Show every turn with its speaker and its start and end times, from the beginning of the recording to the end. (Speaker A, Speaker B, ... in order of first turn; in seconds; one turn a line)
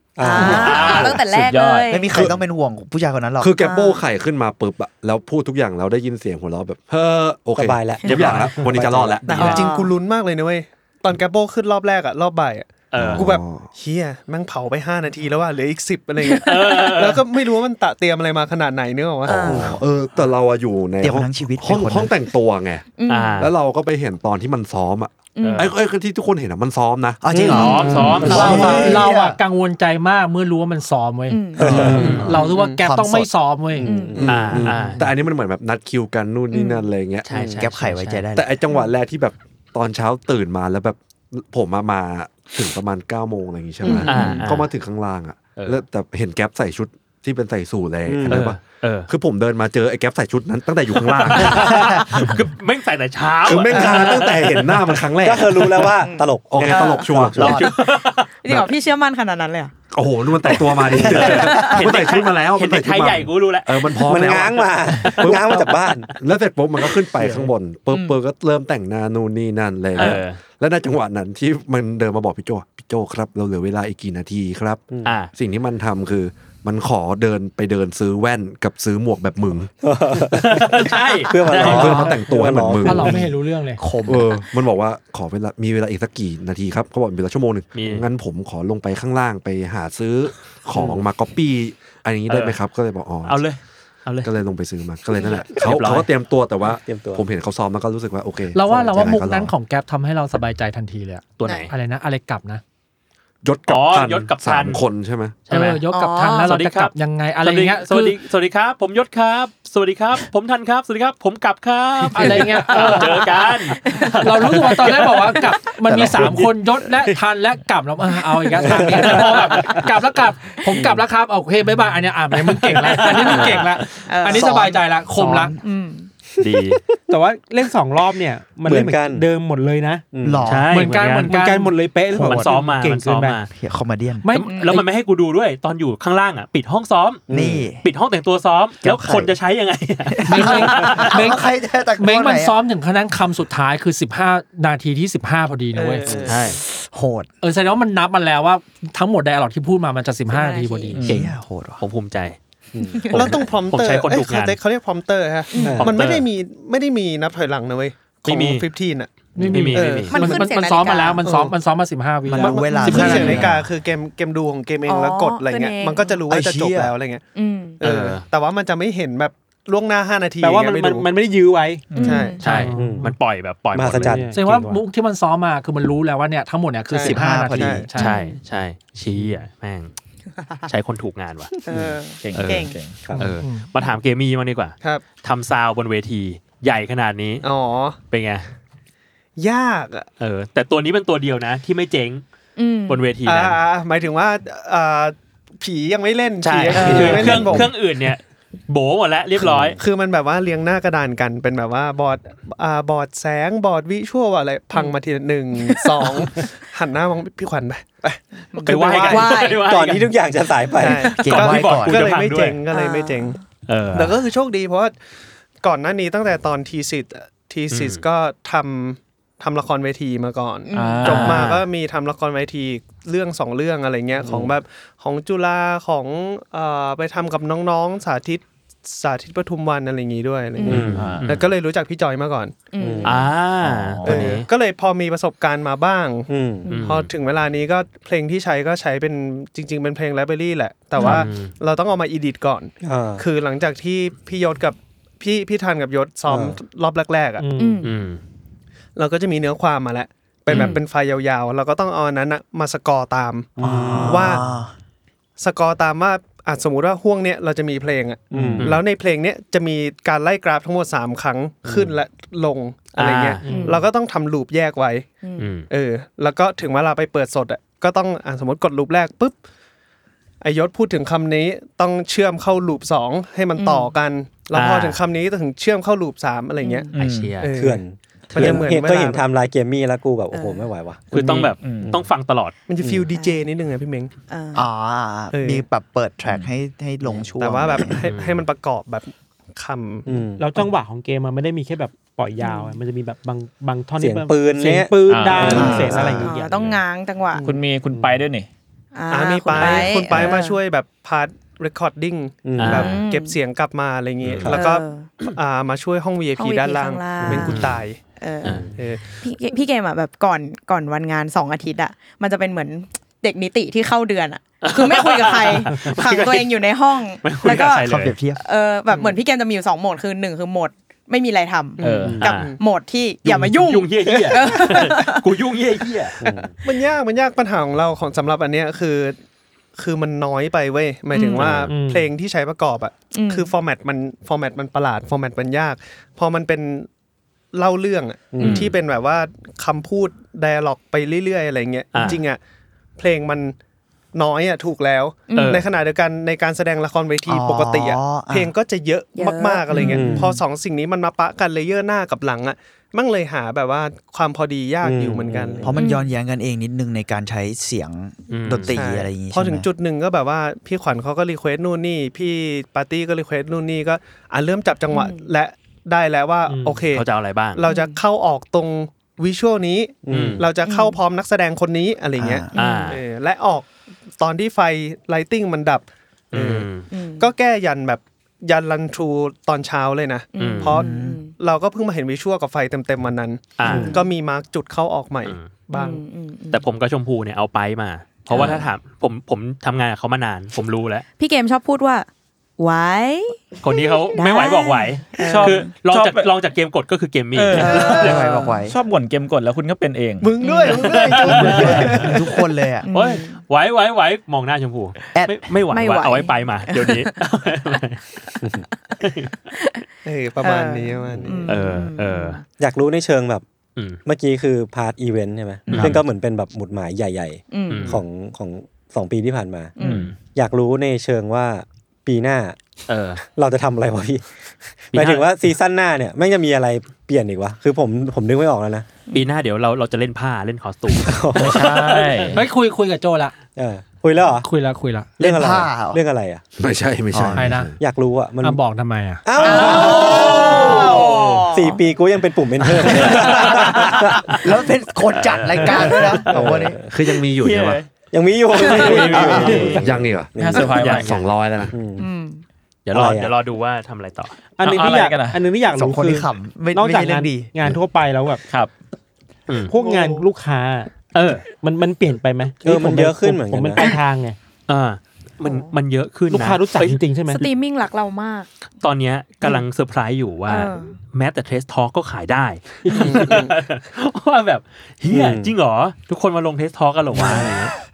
Speaker A: 0.2-1.1
Speaker B: 0.2-2.3
Speaker C: 0.3-1.2
Speaker D: 0.4-1.9
Speaker E: 0.6-1.1
Speaker F: 1.9-3.5
Speaker E: 2.1-2.4
Speaker E: 3.4-9.7
Speaker B: 3.5-4.0
Speaker A: 7.5-9.6
Speaker B: 8.0-8.6
Speaker G: 9.2-19.4
Speaker B: 9.3-10.0
Speaker C: 12.9-13.3
Speaker E: 12.9-13.7
Speaker B: 16.2-16.8
Speaker C: 16.4-17.2
Speaker B: 19.2-19.7
Speaker E: 19.3-22.9
Speaker F: 19.4-20.2
Speaker F: 21.0-22.1
Speaker B: 22.9-23.5
Speaker C: 23.1-23.5
Speaker E: 23.4-27.2
Speaker B: 25.4-25.8
Speaker C: 25.4-25.7
Speaker F: 27.2-29.4
Speaker C: 27.3-28.9
Speaker E: 27.9-29.0
Speaker A: 28.2-28.7
Speaker H: 28.2-33.9
Speaker B: 31.3-31.9
Speaker A: 31.6-32.3
Speaker F: 31.6-33.3
Speaker C: 31.9-32.3
Speaker G: 32.3-32.8
Speaker A: 33.8-34.5
Speaker B: 33.8-34.9
Speaker E: 34.1-37.4
Speaker C: 34.2-35.0
Speaker B: 36.5-36.9
Speaker C: 37.2-38.2
Speaker A: 37.3-37.7
Speaker F: 37.5-38.5
Speaker E: 38.3-51.8
Speaker B: 43.8-44.4
Speaker C: 43.9-44.7
Speaker C: 45.5-45.8
Speaker A: 48.0-48.5
Speaker C: 48.3-49.1
Speaker C: 50.9-55.0
Speaker E: 53.4-57.6
Speaker A: 55.2-57.5
Speaker B: 56.0-57.3
Speaker C: 57.3-58.3
Speaker F: 57.3-57.6
Speaker B: 58.4-59.7
Speaker E: 59.9-79.7
Speaker B: 60.3-61.9
Speaker C: 61.0-65.7
Speaker A: 64.0-66.1
Speaker B: 67.9-68.2
Speaker C: 69.9-70.4
Speaker A: 74.9-75.2
Speaker C: 75.0-75.3
Speaker A: 79.8-83.2
Speaker C: 80.4-82.1
Speaker E: 81.5-83.2
Speaker H: 82.8-83.8
Speaker F: 83.0-84.4
Speaker E: 84.0-93.5
Speaker C: 87.7-88.1
Speaker A: 90.7-91.0
Speaker C: 92.3-92.6
Speaker C: 93.2-94.4
Speaker E: 94.2-99.5
Speaker B: 95.1-95.4
Speaker C: 95.5-96.1
Speaker A: 96.8-97.2
Speaker H: 98.5-102.6
Speaker A: 98.6-99.0
Speaker C: 101.4-101.7
Speaker B: 101.4-101.7
Speaker E: 103.4-105.4
Speaker C: 103.7-104.8
Speaker C: 105.5-115.4
Speaker H: 105.5-108.2
Speaker B: 105.9-106.5
Speaker H: 112.1-113.3
Speaker B: 112.8-114.4
Speaker H: 114.2-125.5
Speaker F: 115.8-116.5
Speaker A: 118.6-119.3
Speaker A: 120.7-121.0
Speaker C: 122.7-123.8
Speaker B: 123.1-124.7
Speaker F: 124.3-125.6
Speaker B: 125.6-126.1
Speaker A: 126.4-126.7
Speaker C: 126.4-126.8
Speaker I: 127.1-130.0
Speaker A: 128.6-129.3
Speaker A: 130.1-130.4
Speaker F: 130.2-130.7
Speaker C: 130.4-131.3
Speaker H: 130.7-131.7
Speaker I: 131.3-133.4
Speaker F: 132.1-132.5
Speaker C: 132.2-133.5
Speaker F: 133.5-134.3
Speaker H: 134.2-134.8
Speaker C: 134.3-137.2
Speaker B: 134.4-134.8
Speaker A: 137.3-137.7
Speaker F: 137.3-137.8
Speaker C: 137.8-141.0
Speaker F: 138.8-139.3
Speaker F: 140.1-142.6
Speaker H: 140.3-141.4
Speaker H: 142.0-146.1
Speaker G: 145.7-146.4
Speaker A: 146.1-146.4
Speaker C: 146.2-146.6
Speaker F: 146.3-147.3
Speaker H: 147.4-151.0
Speaker B: 150.3-151.1
Speaker D: 150.9-151.3
Speaker F: 151.0-151.8
Speaker C: 151.8-152.4
Speaker A: 152.7-153.1
Speaker B: 152.8-153.6
Speaker C: 153.1-154.6
Speaker G: 153.1-159.1
Speaker B: 155.5-155.9
Speaker A: 155.6-155.9
Speaker C: 155.8-156.2
Speaker C: 158.2-158.7
Speaker H: 159.3-163.4
Speaker C: 159.4-160.1
Speaker G: 159.7-160.2
Speaker B: 160.0-161.3
Speaker F: 162.3-163.6
Speaker I: 162.4-163.2
Speaker B: 162.7-163.6
Speaker G: 162.8-167.2
Speaker B: 164.8-166.2
Speaker F: 166.3-166.9
Speaker B: 167.3-167.8
Speaker G: 167.8-171.1
Speaker C: 167.8-168.2
Speaker I: 170.4-173.1
Speaker B: 171.9-172.7
Speaker D: 171.9-172.3
Speaker G: 172.0-172.4
Speaker C: 172.4-174.2
Speaker A: 172.8-173.1
Speaker A: 173.7-174.8
Speaker I: 174.0-174.4
Speaker H: 174.3-178.2
Speaker G: 176.9-177.8
Speaker F: 177.0-177.9
Speaker B: 177.9-178.4
Speaker C: 177.9-179.9
Speaker C: 180.7-181.5
Speaker B: 181.6-182.8
Speaker D: 182.2-183.1
Speaker C: 182.3-187.5
Speaker A: 183.1-183.3
Speaker H: 183.4-183.7
Speaker G: 187.4-188.0
Speaker C: 188.1-188.5
Speaker G: 189.3-190.1
Speaker C: 190.2-192.2
Speaker B: 192.6-193.0
Speaker C: 192.9-193.6
Speaker G: 193.2-197.7
Speaker C: 196.4-199.8
Speaker B: 196.7-197.6
Speaker E: 197.1-197.6
Speaker G: 199.8-209.2
Speaker B: 204.7-205.0
Speaker B: 205.5-206.4
Speaker B: 208.5-209.7
Speaker C: 208.6-210.1
Speaker A: 209.7-211.2
Speaker G: 210.7-213.4
Speaker B: 210.9-211.4
Speaker F: 211.1-212.1
Speaker C: 211.2-212.6
Speaker B: 212.7-213.4
Speaker C: 213.7-214.2
Speaker G: 213.9-214.9
Speaker G: 215.6-232.6
Speaker C: 217.7-218.0
Speaker B: 220.7-221.5
Speaker D: 220.7-221.6
Speaker C: 221.0-221.6
Speaker A: 224.2-224.5
Speaker B: 230.5-230.9
Speaker A: 230.7-231.1
Speaker C: 230.7-231.5
Speaker D: 230.9-231.3
Speaker B: 232.7-233.3
Speaker A: 232.8-233.1
Speaker C: 233.0-234.5
Speaker D: 233.6-234.4
Speaker G: 234.0-236.3
Speaker A: 236.3-236.7
Speaker B: 236.6-237.0
Speaker C: 236.7-237.1
Speaker G: 236.8-247.4
Speaker B: 240.9-241.3
Speaker C: 241.0-241.5
Speaker A: 242.8-243.2
Speaker A: 246.3-246.6
Speaker I: 247.4-247.8
Speaker B: 247.6-247.9
Speaker C: 247.8-248.2
Speaker G: 248.9-254.4
Speaker C: 250.5-250.8
Speaker B: 250.5-250.8
Speaker A: 253.6-254.4
Speaker I: 253.6-254.2
Speaker F: 253.7-254.7
Speaker G: 255.4-265.1
Speaker A: 258.3-258.8
Speaker A: 261.6-261.9
Speaker C: 262.9-263.5
Speaker I: 263.4-263.8
Speaker B: 263.4-263.9
Speaker B: 265.2-265.5
Speaker C: 265.4-265.7
Speaker G: 265.7-269.4
Speaker G: 270.4-276.9
Speaker B: 273.5-274.0
Speaker C: 274.5-275.0
Speaker B: 276.6-276.9
Speaker D: 276.9-277.4
Speaker C: 276.9-277.5
Speaker G: 277.4-279.2
Speaker A: 277.6-282.1
Speaker B: 280.3-280.7
Speaker C: 281.1-282.5
Speaker D: 281.6-281.9
Speaker G: 282.7-284.1
Speaker A: 282.8-283.1
Speaker B: 283.1-283.5
Speaker B: 284.3-284.7
Speaker F: 284.5-288.0
Speaker G: 285.3-285.6
Speaker G: 287.4-290.1
Speaker C: 288.0-288.4
Speaker A: 290.1-290.6
Speaker I: 290.4-296.5
Speaker B: 292.4-292.8
Speaker A: 294.0-296.3
Speaker D: 295.0-295.9
Speaker B: 295.4-297.5
Speaker F: 295.4-296.2
Speaker D: 297.4-298.5
Speaker B: 298.9-300.6
Speaker G: 299.1-308.0
Speaker A: 302.4-302.9
Speaker C: 302.6-303.0
Speaker B: 302.7-303.4
Speaker E: 304.2-304.6
Speaker C: 304.2-304.6
Speaker B: 304.5-305.1
Speaker B: 306.4-325.2
Speaker A: 307.2-307.5
Speaker C: 308.4-308.7
Speaker G: 308.7-309.1
Speaker C: 314.6-316.6
Speaker C: 317.2-318.1
Speaker F: 317.9-318.4
Speaker G: 318.9-319.1
Speaker G: 321.8-322.6
Speaker D: 321.8-322.2
Speaker C: 322.2-322.5
Speaker C: 323.2-326.2
Speaker G: 324.1-324.5
Speaker A: 326.2-326.5
Speaker G: 326.6-329.1
Speaker G: 329.8-336.9
Speaker B: 331.1-331.7
Speaker C: 331.4-331.7
Speaker I: 331.7-332.1
Speaker B: 333.1-333.5
Speaker G: 337.5-342.4
Speaker A: 338.3-338.7
Speaker D: 338.4-338.7
Speaker C: 341.9-342.2
Speaker G: 343.0-343.5
Speaker G: 344.1-355.7
Speaker B: 345.3-345.7
Speaker C: 345.3-345.6
Speaker F: 347.3-348.5
Speaker B: 349.1-350.3
Speaker F: 349.8-350.0
Speaker A: 349.8-350.4
Speaker A: 354.8-355.8
Speaker F: 355.6-359.7
Speaker B: 355.7-356.1
Speaker C: 358.3-358.8
Speaker G: 358.7-367.0
Speaker B: 364.9-365.3
Speaker I: 366.5-366.9
Speaker C: 366.9-367.6
Speaker G: 367.5-373.7
Speaker B: 367.6-368.0
Speaker A: 370.0-370.5
Speaker C: 370.1-370.4
Speaker B: 370.5-371.0
Speaker F: 372.2-372.5
Speaker B: 372.5-373.0
Speaker C: 372.5-373.0
Speaker G: 374.2-386.0
Speaker C: 376.3-376.9
Speaker B: 376.8-377.3
Speaker B: 380.3-381.4
Speaker C: 380.4-380.8
Speaker F: 380.8-381.2
Speaker C: 383.6-384.0
Speaker B: 383.6-384.1
Speaker C: 385.2-385.6
Speaker B: 385.7-386.6
Speaker C: 386.5-391.1
Speaker B: 388.3-388.7
Speaker B: 391.2-392.1
Speaker B: 392.6-395.8
Speaker C: 393.6-398.2
Speaker D: 395.2-396.3
Speaker D: 397.3-400.4
Speaker B: 397.5-398.3
Speaker F: 397.8-398.7
Speaker F: 400.2-402.9
Speaker B: 400.4-401.9
Speaker C: 400.7-402.2
Speaker G: 400.8-401.8
Speaker B: 402.8-403.4
Speaker C: 402.9-408.0
Speaker B: 405.7-407.2
Speaker C: 409.0-409.3
Speaker B: 409.6-409.8
Speaker G: 410.0-411.5
Speaker B: 410.4-412.4
Speaker C: 411.4-412.4
Speaker A: 412.6-413.4
Speaker A: 414.0-422.6
Speaker C: 415.7-416.0
Speaker B: 417.5-418.0
Speaker C: 417.7-418.0
Speaker B: 419.8-420.1
Speaker D: 419.8-420.1
Speaker C: 419.8-420.1
Speaker C: 422.9-423.2
Speaker A: 423.2-424.2
Speaker C: 424.9-425.3
Speaker A: 424.9-428.9
Speaker C: 429.1-432.3
Speaker A: 431.0-432.0
Speaker D: 431.3-432.4
Speaker H: 432.3-433.3
Speaker A: 433.6-434.5
Speaker H: 434.4-435.1
Speaker F: 435.2-436.0
Speaker A: 435.2-436.4
Speaker E: 436.6-437.8
Speaker F: 437.1-437.4
Speaker H: 437.3-437.7
Speaker A: 437.8-438.6
Speaker H: 438.4-439.2
Speaker A: 439.2-444.3
Speaker B: 439.4-441.8
Speaker C: 439.4-441.5
Speaker C: 442.8-444.0
Speaker F: 443.2-446.8
Speaker C: 445.1-446.3
Speaker A: 446.3-446.9
Speaker E: 446.7-447.8
Speaker C: 447.1-447.9
Speaker A: 448.1-450.9
Speaker C: 448.5-449.9
Speaker B: 448.6-449.1
Speaker F: 449.2-449.6
Speaker E: 449.5-451.7
Speaker D: 450.4-451.2
Speaker C: 450.6-451.2
Speaker A: 451.7-452.1
Speaker B: 452.0-452.4
Speaker C: 452.9-454.4
Speaker A: 452.9-453.3
Speaker I: 454.6-458.4
Speaker D: 454.6-455.4
Speaker F: 455.7-457.8
Speaker C: 459.5-459.7
Speaker I: 459.7-460.9
Speaker G: 459.7-460.2
Speaker C: 461.1-461.4
Speaker I: 461.5-464.4
Speaker A: 462.6-463.9
Speaker C: 464.7-467.5
Speaker B: 465.4-465.7
Speaker I: 466.3-467.4
Speaker B: 467.3-468.5
Speaker C: 468.8-477.7
Speaker B: 470.5-471.0
Speaker I: 472.9-473.2
Speaker G: 472.9-473.5
Speaker A: 475.1-475.5
Speaker A: 477.1-477.5